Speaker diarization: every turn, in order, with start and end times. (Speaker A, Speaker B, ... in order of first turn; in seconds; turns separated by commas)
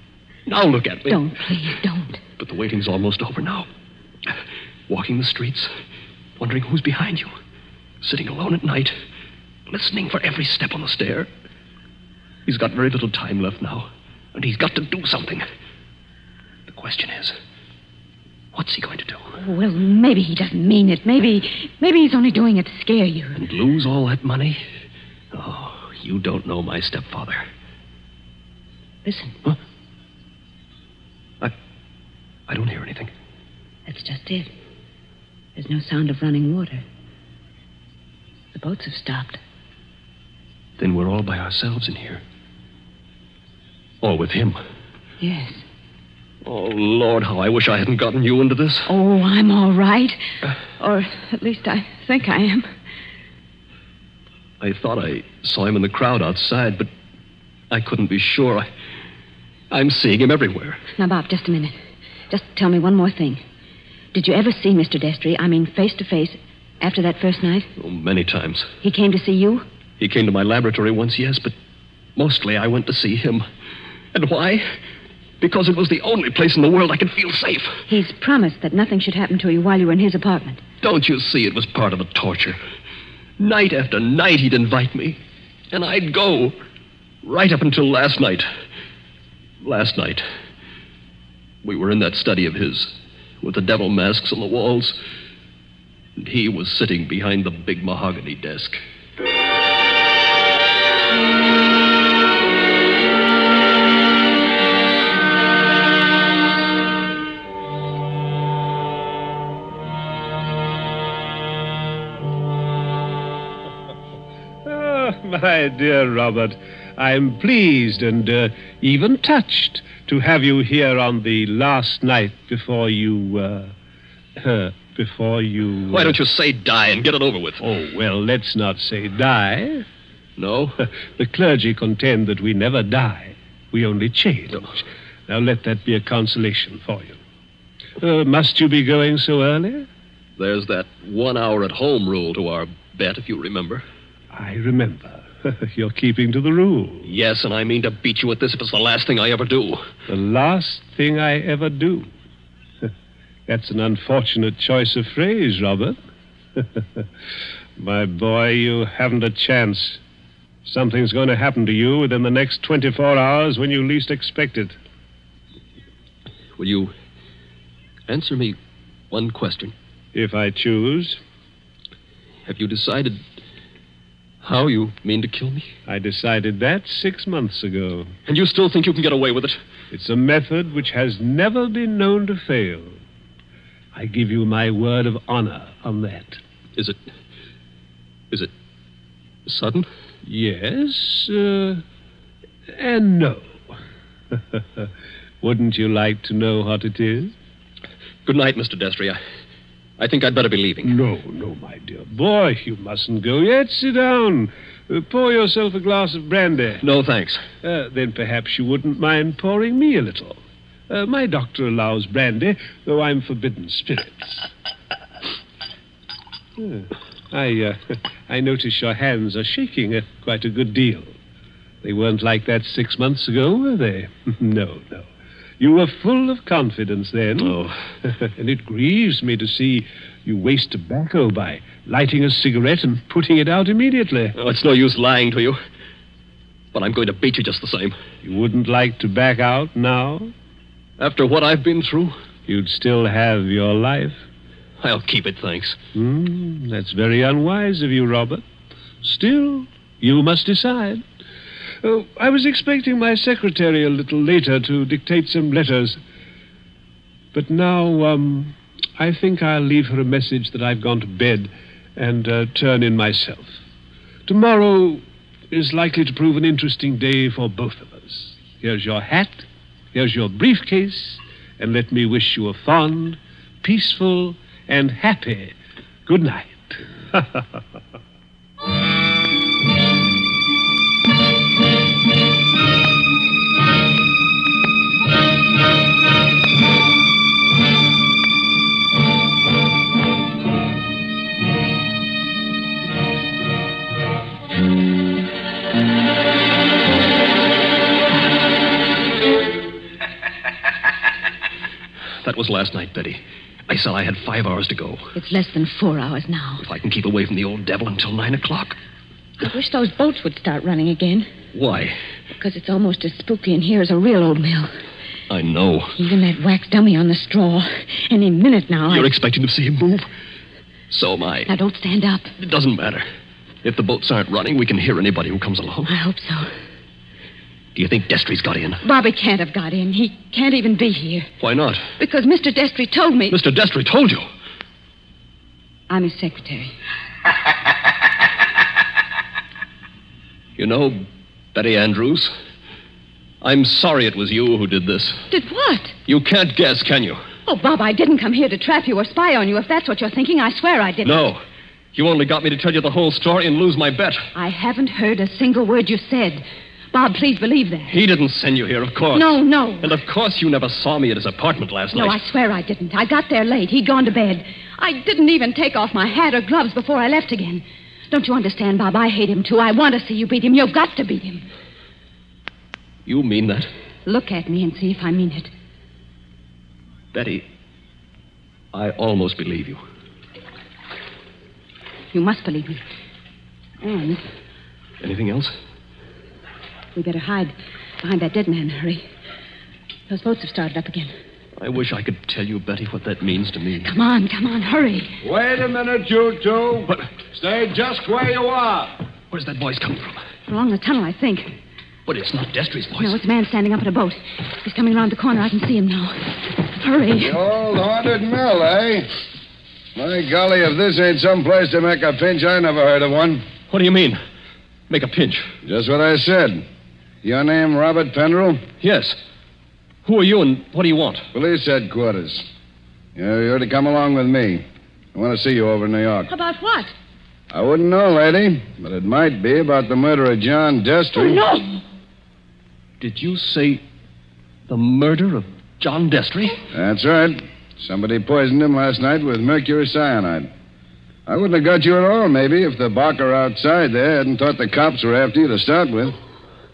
Speaker A: 0.5-1.2, Speaker B: 1.1-2.2, Speaker A: 2.4-3.7, Speaker A: 4.9-5.7, Speaker A: 6.4-7.3, Speaker A: 8.0-8.9, Speaker A: 9.7-11.3, Speaker A: 12.5-15.4, Speaker A: 16.7-17.4, Speaker A: 18.5-19.3, Speaker B: 19.4-23.4, Speaker A: 23.4-24.6, Speaker A: 25.3-27.4, Speaker B: 29.1-29.4, Speaker A: 32.5-33.1, Speaker B: 33.9-34.5, Speaker B: 35.6-36.8, Speaker B: 38.5-39.4, Speaker A: 40.8-42.2, Speaker A: 44.0-44.6, Speaker B: 45.2-45.6, Speaker A: 46.5-48.9, Speaker B: 48.9-50.2, Speaker B: 50.8-52.7, Speaker A: 54.6-56.9, Speaker A: 57.7-58.7, Speaker A: 59.7-60.8, Speaker B: 61.0-61.7, Speaker B: 62.3-63.4, Speaker B: 64.1-67.7, Speaker A: 67.8-68.7, Speaker B: 68.8-69.7, Speaker A: 70.0-71.5, Speaker A: 72.2-73.4, Speaker A: 74.1-74.7, Speaker A: 75.4-77.8, Speaker B: 77.9-80.6, Speaker A: 80.8-82.6, Speaker A: 83.4-85.2, Speaker A: 85.7-86.5, Speaker A: 87.2-88.5, Speaker A: 89.6-90.2, Speaker A: 91.6-95.0, Speaker A: 96.2-98.8, Speaker C: 114.7-123.7, Speaker C: 124.4-126.2, Speaker A: 125.9-127.6, Speaker C: 127.6-129.8, Speaker A: 130.4-130.8, Speaker C: 131.2-137.2, Speaker C: 138.0-139.9, Speaker A: 140.4-143.8, Speaker C: 144.3-147.1, Speaker A: 147.1-149.9, Speaker C: 150.1-152.1, Speaker C: 153.5-156.0, Speaker C: 156.6-157.0, Speaker C: 157.8-160.0, Speaker C: 160.7-164.8, Speaker A: 166.6-166.9, Speaker A: 168.1-168.6, Speaker A: 169.1-169.7, Speaker C: 170.1-171.2, Speaker A: 172.5-173.2, Speaker A: 174.4-175.7, Speaker C: 175.9-178.1, Speaker A: 178.3-179.6, Speaker C: 179.9-183.0, Speaker C: 183.9-186.4, Speaker A: 189.5-189.9, Speaker C: 190.3-191.8, Speaker C: 192.8-193.7, Speaker C: 194.3-194.9, Speaker C: 195.4-197.3, Speaker A: 198.2-199.2, Speaker A: 200.0-200.9, Speaker C: 200.8-206.8, Speaker A: 206.8-207.4, Speaker C: 207.6-214.5, Speaker C: 216.6-221.2, Speaker C: 221.8-225.1, Speaker C: 225.6-234.4, Speaker A: 227.4-227.7, Speaker A: 234.3-235.6, Speaker A: 236.7-238.0, Speaker C: 238.2-240.3, Speaker A: 241.0-242.2, Speaker C: 242.5-244.2, Speaker A: 244.8-245.8, Speaker C: 245.9-248.4, Speaker C: 249.0-251.0, Speaker C: 251.8-256.0, Speaker C: 257.3-263.6, Speaker C: 264.3-275.6, Speaker C: 276.1-277.4, Speaker A: 302.2-305.1, Speaker B: 305.1-306.6, Speaker A: 306.6-308.8, Speaker B: 309.4-311.3, Speaker A: 311.5-312.0, Speaker B: 312.4-314.7, Speaker A: 315.3-316.0, Speaker B: 315.9-319.1, Speaker A: 318.9-320.1, Speaker A: 320.9-321.5, Speaker B: 321.5-322.3, Speaker A: 322.4-323.1, Speaker A: 323.6-325.9, Speaker B: 325.9-326.5, Speaker A: 327.8-328.8, Speaker B: 328.8-331.3, Speaker A: 331.4-331.9, Speaker B: 332.0-333.4, Speaker A: 333.3-334.2, Speaker B: 335.9-336.7, Speaker A: 340.6-342.3, Speaker A: 343.4-345.2, Speaker B: 345.3-345.9, Speaker A: 346.1-347.2, Speaker B: 347.5-351.3, Speaker A: 351.0-351.4, Speaker A: 351.9-354.3, Speaker B: 354.4-357.9, Speaker A: 357.9-362.2, Speaker B: 359.1-359.9, Speaker B: 361.9-371.5, Speaker A: 373.1-373.7, Speaker B: 374.1-375.5, Speaker A: 377.1-377.4, Speaker A: 378.7-379.8, Speaker B: 382.1-382.8, Speaker B: 383.8-384.2, Speaker A: 385.0-385.5, Speaker B: 386.9-389.1, Speaker B: 390.1-391.1, Speaker A: 391.6-393.9, Speaker B: 393.8-395.2, Speaker D: 395.2-399.0, Speaker A: 399.3-400.2, Speaker B: 400.5-401.5, Speaker A: 402.1-403.2, Speaker B: 403.0-407.4, Speaker D: 407.2-409.1, Speaker D: 410.0-413.4, Speaker A: 413.7-414.2, Speaker A: 414.9-415.5, Speaker D: 415.6-416.6, Speaker D: 417.2-418.6, Speaker A: 418.8-419.2, Speaker A: 420.1-421.3, Speaker D: 421.3-422.5, Speaker D: 423.2-426.3, Speaker B: 426.3-426.9, Speaker D: 427.5-431.4, Speaker B: 431.1-431.8, Speaker A: 433.0-433.8, Speaker A: 434.7-436.6, Speaker D: 436.7-440.5, Speaker D: 441.3-446.2